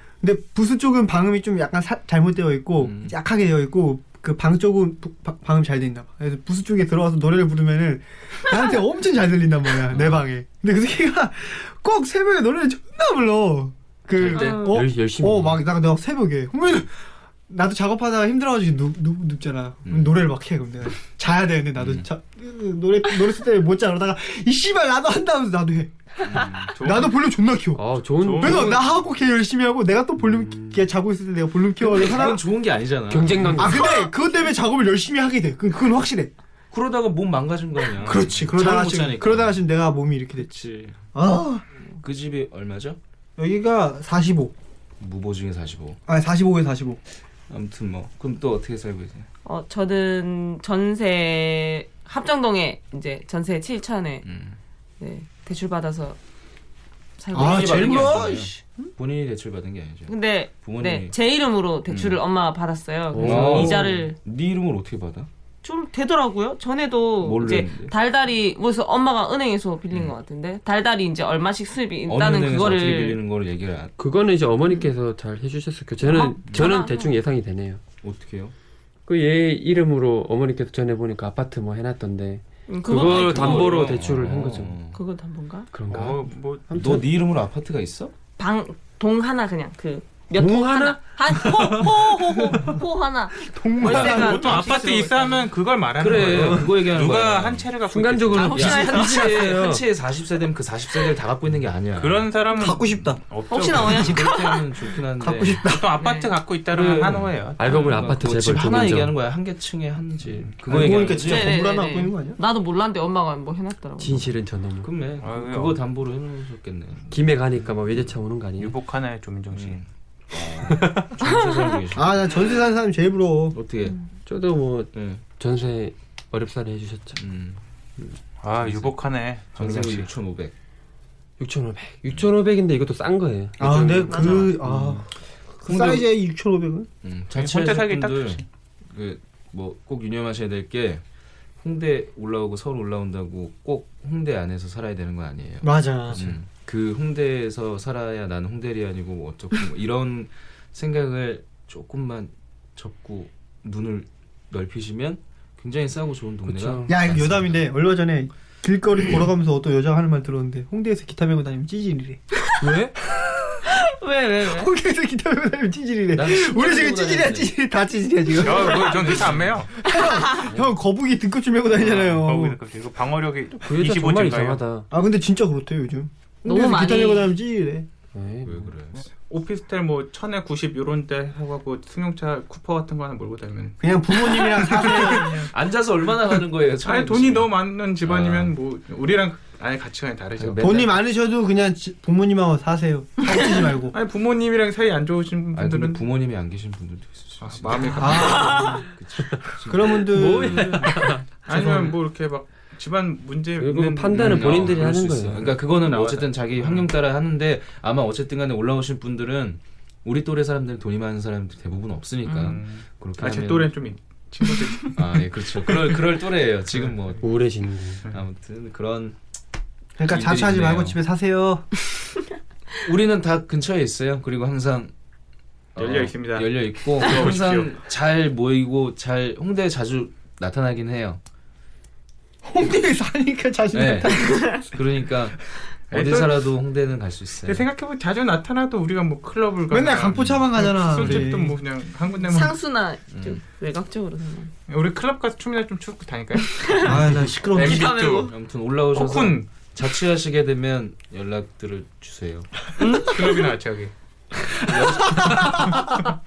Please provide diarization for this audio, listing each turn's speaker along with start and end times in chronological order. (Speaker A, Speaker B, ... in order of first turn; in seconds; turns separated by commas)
Speaker A: 0.2-16.9, Speaker B: 2.8-3.1, Speaker B: 9.9-10.2, Speaker B: 14.2-14.7, Speaker C: 14.3-14.8, Speaker D: 14.6-15.6, Speaker A: 17.5-27.8, Speaker B: 19.9-20.2, Speaker B: 21.8-22.1, Speaker B: 26.2-26.8, Speaker E: 26.7-27.2, Speaker D: 27.8-28.8, Speaker E: 28.2-28.9, Speaker A: 28.3-32.4, Speaker D: 30.2-30.8, Speaker B: 31.8-33.9, Speaker D: 33.1-33.9, Speaker A: 33.6-36.3, Speaker B: 36.7-39.6, Speaker A: 38.0-40.6, Speaker B: 40.4-41.0, Speaker A: 41.1-41.6, Speaker B: 42.0-43.0, Speaker A: 43.4-44.5, Speaker B: 45.0-46.0, Speaker A: 46.1-47.0, Speaker B: 47.5-49.3, Speaker C: 49.4-54.2, Speaker B: 54.2-54.6, Speaker C: 55.0-56.2, Speaker C: 57.2-58.4, Speaker A: 57.3-58.7, Speaker B: 57.3-61.1, Speaker C: 60.1-64.2, Speaker B: 61.9-62.2, Speaker D: 63.1-64.0, Speaker B: 63.2-65.3, Speaker C: 65.6-73.2, Speaker B: 67.2-67.9, Speaker B: 69.9-70.2, Speaker B: 72.0-73.9, Speaker D: 74.0-77.8, Speaker C: 76.0-77.1, Speaker B: 78.0-78.5, Speaker D: 79.1-84.8, Speaker C: 82.7-83.9, Speaker B: 82.9-85.0, Speaker C: 84.9-85.7, Speaker D: 85.7-87.1, Speaker E: 85.9-86.6, Speaker B: 86.7-88.1, Speaker C: 88.4-95.4, Speaker D: 90.3-91.7, Speaker A: 93.4-94.6, Speaker E: 93.8-98.9, Speaker B: 96.0-97.7, Speaker D: 97.9-99.8, Speaker C: 98.4-99.3, Speaker B: 98.4-102.3, Speaker E: 101.9-104.2, Speaker A: 102.5-103.2, Speaker C: 103.5-104.8, Speaker B: 103.7-105.6, Speaker A: 105.2-105.9, Speaker E: 105.7-108.1, Speaker C: 106.0-106.3, Speaker B: 106.7-111.5, Speaker D: 107.6-109.1, Speaker E: 110.4-110.9, Speaker A: 110.7-112.4, Speaker C: 111.1-114.3, Speaker D: 114.0-114.9, Speaker B: 114.8-118.1, Speaker E: 115.2-115.8, Speaker D: 117.1-118.7, Speaker E: 118.6-119.8, Speaker B: 119.5-122.5, Speaker D: 120.7-121.0, Speaker A: 121.9-123.6, Speaker B: 123.5-124.0, Speaker D: 124.2-127.2, Speaker B: 124.9-125.2, Speaker B: 127.2-127.6, Speaker E: 128.4-130.1, Speaker B: 128.6-128.9, Speaker B: 129.5-130.5, Speaker D: 131.4-135.0, Speaker A: 133.6-135.1, Speaker C: 134.1-134.5, Speaker A: 135.6-136.9, Speaker B: 135.7-136.1, Speaker B: 137.0-141.0, Speaker E: 137.3-138.4, Speaker B: 141.6-157.6, Speaker A: 145.6-146.3, Speaker D: 156.4-156.9, Speaker A: 156.9-163.6, Speaker D: 162.6-162.9, Speaker C: 163.7-164.7, Speaker A: 164.4-172.6, Speaker B: 166.1-167.5, Speaker E: 168.4-169.7, Speaker B: 169.1-169.4, Speaker C: 169.9-170.4, Speaker E: 171.7-174.6, Speaker D: 173.6-174.9, Speaker A: 174.9-177.9, Speaker C: 176.4-177.3, Speaker D: 178.1-178.7, Speaker B: 178.4-179.1, Speaker E: 179.2-185.5, Speaker A: 183.8-185.5, Speaker B: 185.5-188.5, Speaker E: 186.8-190.9, Speaker D: 190.4-190.8, Speaker A: 190.6-193.9, Speaker E: 193.9-196.0, Speaker B: 195.5-200.6, Speaker E: 197.4-198.7, Speaker A: 198.0-198.9, Speaker C: 198.4-198.8, Speaker A: 199.6-201.8, Speaker D: 200.1-201.7, Speaker E: 201.4-206.9, Speaker D: 203.6-205.5, Speaker B: 204.1-213.8, Speaker E: 212.2-216.0, Speaker B: 214.9-217.3, Speaker E: 216.7-217.2, Speaker D: 217.2-218.0, Speaker B: 218.1-219.2, Speaker A: 220.0-221.7, Speaker B: 220.0-221.0, Speaker B: 222.8-224.9, Speaker B: 225.7-231.2, Speaker E: 225.8-227.7, Speaker A: 232.4-234.7, Speaker B: 233.7-237.7, Speaker E: 235.9-236.4, Speaker E: 237.4-242.6, Speaker A: 239.7-241.6, Speaker B: 240.1-240.4, Speaker B: 241.0-241.3, Speaker C: 242.2-244.5, Speaker B: 243.1-243.4, Speaker E: 244.7-248.3, Speaker C: 246.6-246.9, Speaker A: 246.8-248.1, Speaker C: 247.5-248.3, Speaker B: 248.3-252.7, Speaker E: 248.9-249.5, Speaker C: 252.8-253.2, Speaker E: 253.0-253.9, Speaker A: 254.3-256.1, Speaker B: 254.7-255.7